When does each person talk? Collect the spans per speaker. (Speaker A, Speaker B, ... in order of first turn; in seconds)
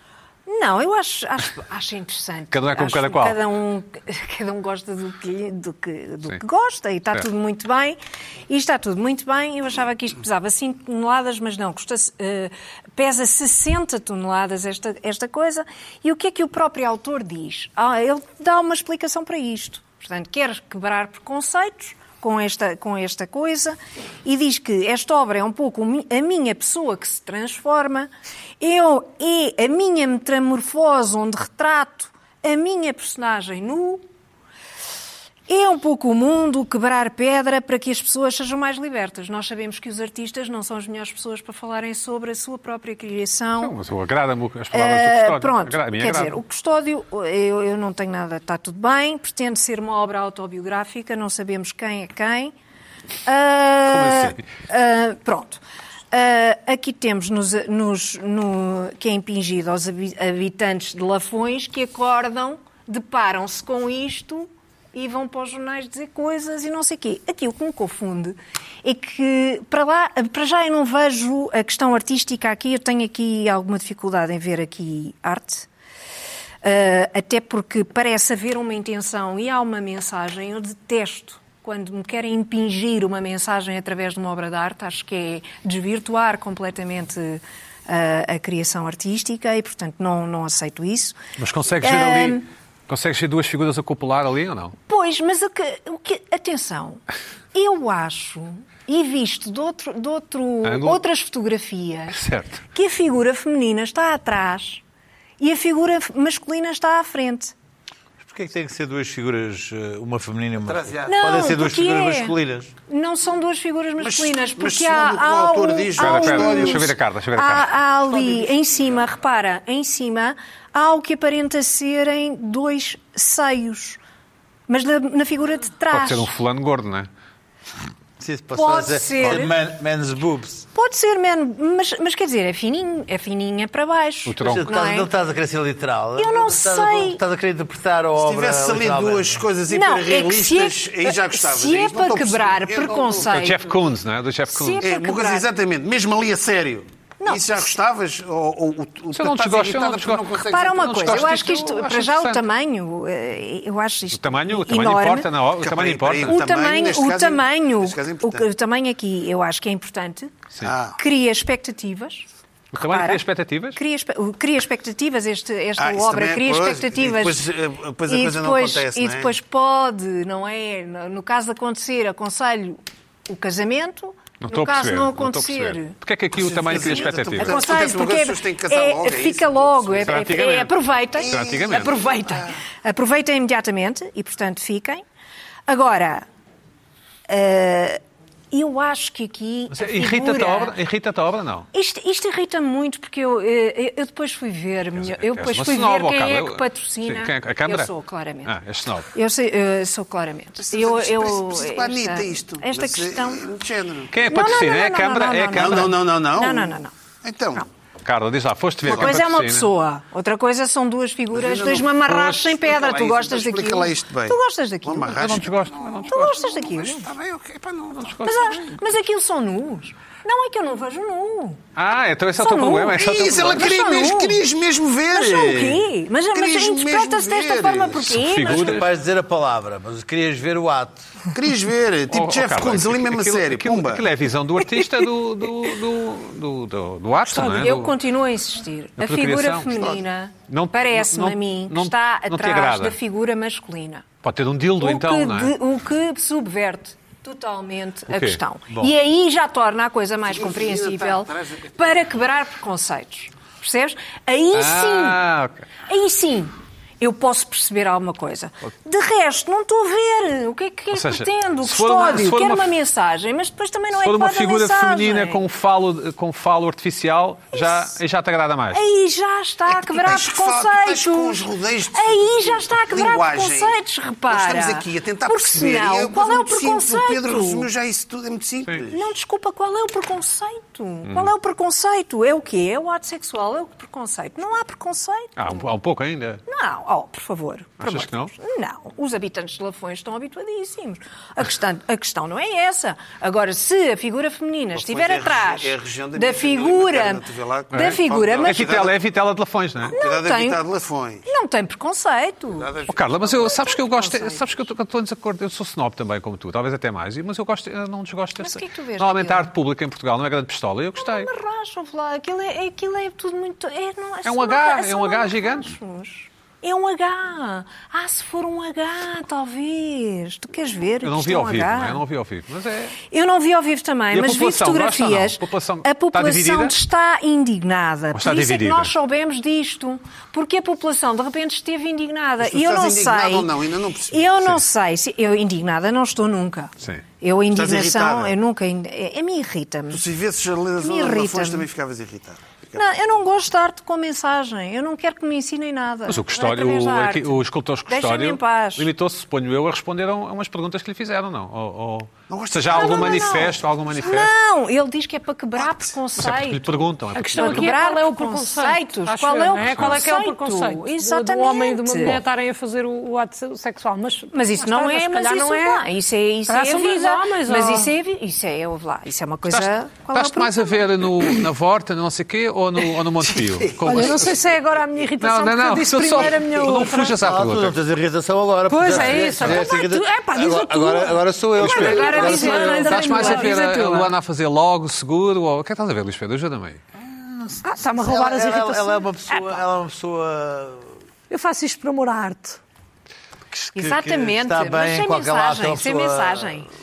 Speaker A: 0.5-34.0, 35.5-43.8, 44.7-52.5, 53.2-55.6, 56.1-75.7, 76.6-91.2, 91.8-92.5, 94.9-97.0, 97.5-102.2, 102.7-104.8, 105.4-107.5, 111.1-112.4, 112.9-124.0, 124.7-126.3, 128.5-129.5, 130.7-135.1, 136.2-137.2, 139.7-143.7, 144.5-145.5, 147.2-147.7, 150.5-155.3, 156.3-160.3, 161.0-162.3, 162.8-163.2, 163.7-167.5, 168.1-175.9, 176.7-185.0, 185.7-186.2, 187.3-188.0, 188.5-190.8, 191.7-198.6, 199.1-203.5, 204.2-206.9, 208.9-215.4, 216.1-217.1, 218.2-221.6, 222.4-224.4, 225.1-228.8, 237.4-244.1, 244.8-255.2, 255.9-265.4, 267.5-267.9, 268.7-277.7, 278.9-285.7, 286.5-298.8, 299.9-300.6, 301.2-302.7, 303.4-304.5, 308.4-309.5, 310.9-322.0, 323.0-333.5, 334.1-340.0, 340.8-341.7, 342.8-348.9, 352.7-356.7, 357.3-362.2, 364.3-371.1, 381.6-384.1, 393.8-396.7
Speaker B: 2.5-3.4, 43.6-46.4, 53.9-54.4, 91.4-94.7, 100.6-101.0, 102.1-102.6, 116.0-117.7, 125.9-127.1, 134.3-134.7, 143.2-144.8, 149.1-152.4, 154.1-156.4, 162.7-163.8, 174.4-177.6, 180.0-182.0, 189.7-191.7, 194.9-197.9, 198.4-199.1, 204.1-206.0, 208.0-209.7, 215.1-216.4, 217.9-218.7, 221.8-223.8, 228.0-228.9, 232.1-237.9, 239.0-239.7, 240.5-243.0, 244.2-245.5, 248.1-248.4, 254.5-255.7, 260.9-262.7, 263.9-268.8, 285.4-286.4, 287.8-288.3, 297.7-299.9, 302.9-311.3, 314.2-315.8, 321.0-323.0, 324.1-326.8, 328.1-328.9, 346.1-354.3, 356.1-357.8, 359.7-360.0, 369.5-374.3, 375.2-377.8, 378.9-379.5, 381.6-386.8
Speaker C: 108.2-112.7, 128.2-130.7, 134.4-139.5, 228.4-231.1, 373.4-374.2, 377.1-383.0, 386.9-390.9, 393.5-396.6
Speaker D: 110.7-111.2, 114.0-117.0, 118.1-119.0, 138.2-143.4, 144.8-151.2, 155.6-158.4, 160.6-161.0, 165.8-169.4, 176.3-180.3, 181.2-182.6, 200.6-204.1, 205.6-207.6, 208.9-209.2, 211.3-218.2, 222.9-228.1, 231.3-234.1, 250.3-252.0, 269.7-273.8, 274.3-279.1, 294.7-298.9, 299.9-301.2, 302.5-303.6, 332.4-334.3, 337.5-338.4, 339.9-342.8, 352.3-353.6
Speaker E: 237.3-237.8, 357.1-365.9, 366.5-367.9, 373.8-377.2, 378.7-383.8, 387.6-389.6, 391.3-392.6